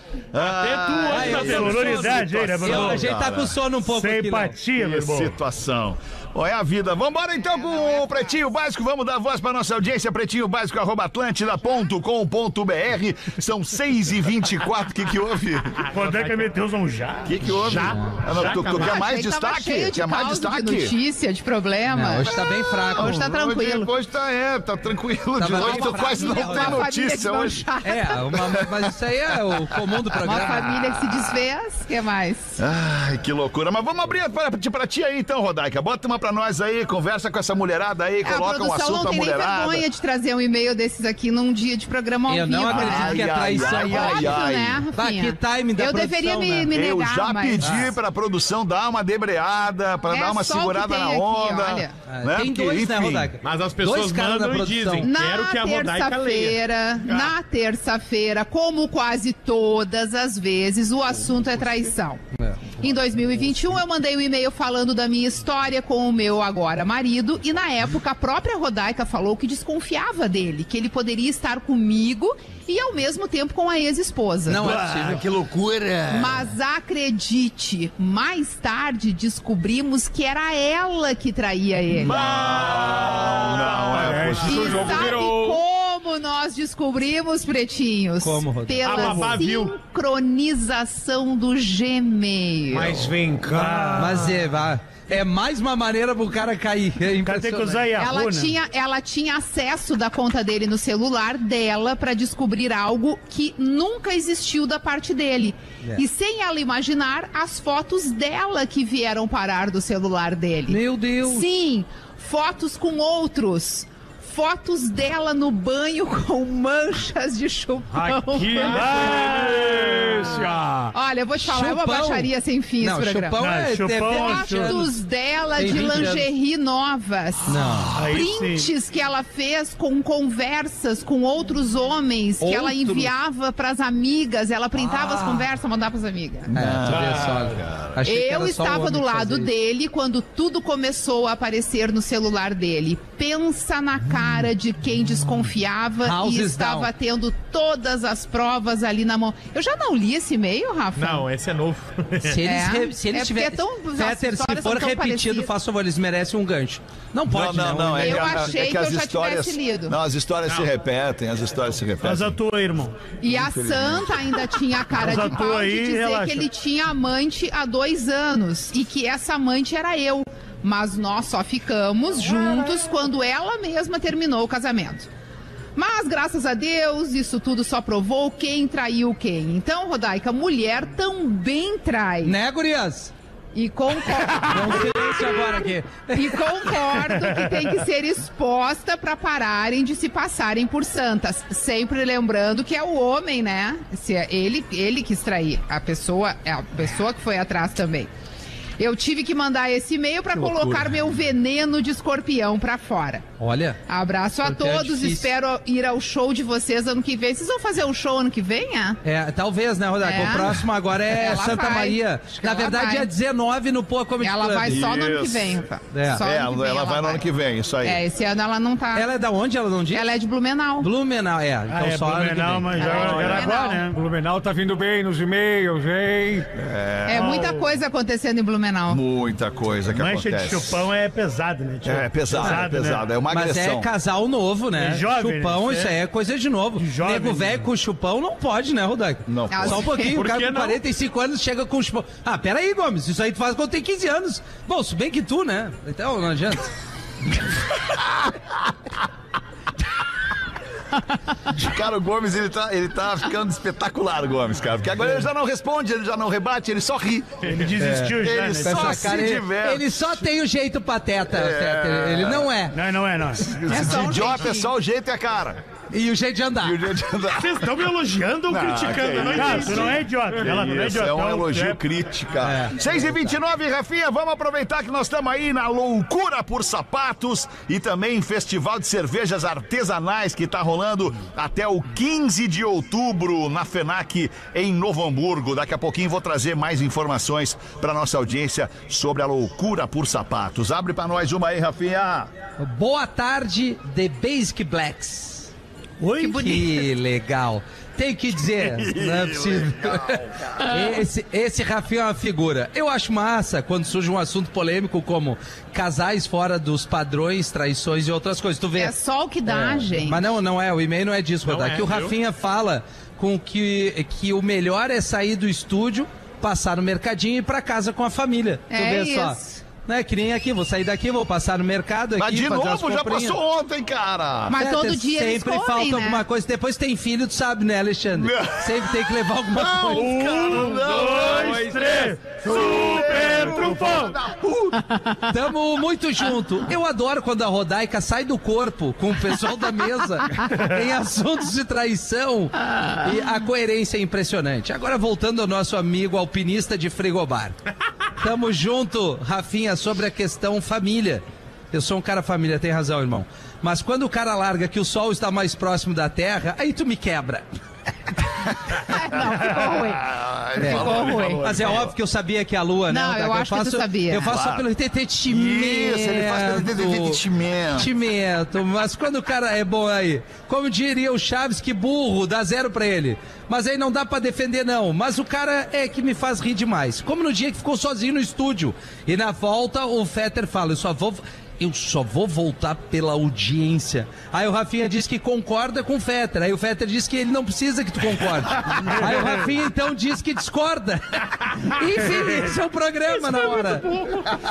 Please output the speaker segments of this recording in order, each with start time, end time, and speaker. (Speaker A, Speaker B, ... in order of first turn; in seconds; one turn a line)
Speaker A: 0.3-3.6
Speaker B: 0.4-2.4
Speaker C: 1.1-2.0
Speaker D: 1.1-2.9
Speaker E: 1.2-3.1
Speaker C: 2.6-4.6
Speaker E: 3.9-5.3
Speaker A: 4.8-15.8
Speaker B: 15.8-16.5
Speaker E: 15.9-17.9
Speaker A: 17.2-20.9
Speaker B: 17.6-19.0
Speaker F: 18.6-23.9
Speaker C: 21.9-23.3
Speaker A: 22.2-27.7
Speaker C: 25.4-26.9
Speaker F: 25.5-28.4
Speaker C: 27.8-30.6
Speaker A: 28.4-31.4
Speaker F: 30.2-32.6
Speaker A: 32.6-39.9
Speaker F: 38.2-47.8
Speaker C: 42.3-46.8
Speaker A: 42.7-44.9
Speaker A: 46.7-53.3
Speaker C: 47.6-48.0
Speaker F: 50.1-51.9
Speaker C: 52.1-55.1
Speaker B: 53.4-57.4
Speaker F: 55.0-74.7
Speaker C: 74.5-75.2
Speaker D: 74.5-76.5
Speaker F: 76.1-82.2
Speaker D: 82.0-85.6
Speaker B: 82.1-84.0
Speaker A: 82.1-85.1
Speaker F: 84.4-93.0
Speaker C: 88.2-89.0
Speaker B: 88.8-89.8
Speaker E: 88.9-89.4
Speaker D: 92.7-94.4
Speaker E: 93.5-94.3
Speaker C: 94.0-98.0
Speaker E: 97.2-98.6
Speaker F: 98.0-119.2
Speaker C: 110.7-111.5
Speaker D: 117.9-120.9
Speaker E: 118.7-120.2
Speaker F: 120.9-123.4
Speaker C: 121.4-124.9
Speaker E: 123.4-124.8
Speaker F: 124.0-136.5
Speaker C: 125.6-126.3
Speaker C: 127.5-127.9
Speaker A: 127.7-128.1
Speaker E: 127.9-128.7
Speaker C: 132.4-133.1
Speaker D: 135.0-135.3
Speaker C: 136.5-139.5
Speaker A: 136.5-138.0
Speaker B: 136.9-137.4
Speaker F: 138.0-151.2
Speaker C: 146.0-146.9
Speaker B: 151.0-152.4
Speaker C: 152.2-158.6
Speaker F: 152.4-155.5
Speaker A: 157.3-162.4
Speaker F: 158.0-160.0
Speaker E: 162.0-163.0
Speaker F: 163.2-175.1
Speaker A: 163.2-164.3
Speaker E: 165.0-166.5
Speaker F: 175.8-182.4
Speaker C: 182.2-183.1
Speaker F: 183.6-198.1
Speaker C: 184.4-187.0
Speaker F: 198.8-203.3
Speaker C: 200.3-200.8
Speaker C: 203.4-203.8
Speaker F: 203.9-209.0
Speaker C: 204.4-205.3
Speaker C: 209.0-214.9
Speaker F: 210.0-213.1
Speaker F: 214.2-217.2
Speaker A: 214.7-215.6
Speaker C: 215.9-216.2
Speaker A: 216.2-218.0
Speaker F: 217.8-219.1
Speaker C: 218.9-220.1
Speaker F: 219.9-220.9
Speaker C: 220.8-223.2
Speaker E: 221.7-224.0
Speaker F: 222.8-223.8
Speaker D: 222.8-226.5
Speaker A: 226.6-227.5
Speaker F: 227.1-229.0
Speaker E: 227.1-227.6
Speaker A: 228.9-230.8
Speaker E: 229.9-233.0
Speaker A: 231.8-233.9
Speaker C: 233.3-246.7
Speaker E: 234.8-236.0
Speaker E: 236.8-237.7
Speaker A: 239.3-239.9
Speaker F: 239.5-240.2
Speaker B: 240.1-240.8
Speaker A: 247.9-248.3
Speaker A: 251.4-257.6
Speaker E: 257.5-258.9
Speaker C: 257.8-262.8
Speaker A: 258.2-260.2
Speaker A: 261.3-262.5
Speaker E: 262.7-263.6
Speaker A: 263.4-265.6
Speaker F: 263.7-264.7
Speaker C: 265.9-266.8
Speaker A: 266.6-267.7
Speaker B: 267.4-270.0
Speaker A: 268.5-292.3
Speaker E: 269.2-271.8
Speaker C: 272.4-273.1
Speaker C: 292.6-295.5
Speaker E: 296.0-296.8
Speaker C: 296.2-308.9
Speaker A: 298.6-300.9
Speaker F: 308.8-310.3
Speaker C: 309.5-323.4
Speaker B: 311.5-312.1
Speaker F: 318.7-319.6
Speaker A: 322.2-324.5
Speaker F: 324.5-326.2
Speaker C: 324.5-330.1
Speaker A: 328.1-331.8
Speaker E: 329.9-334.1
Speaker D: 330.9-333.7
Speaker A: 332.4-334.9
Speaker C: 335.3-347.6
Speaker C: 348.2-357.5
Speaker F: 358.8-361.5
Speaker A: 359.3-361.9
Speaker C: 360.6-367.2
Speaker F: 362.9-364.4
Speaker A: 364.2-364.7
Speaker A: 365.3-367.9
Speaker C: 367.7-394.2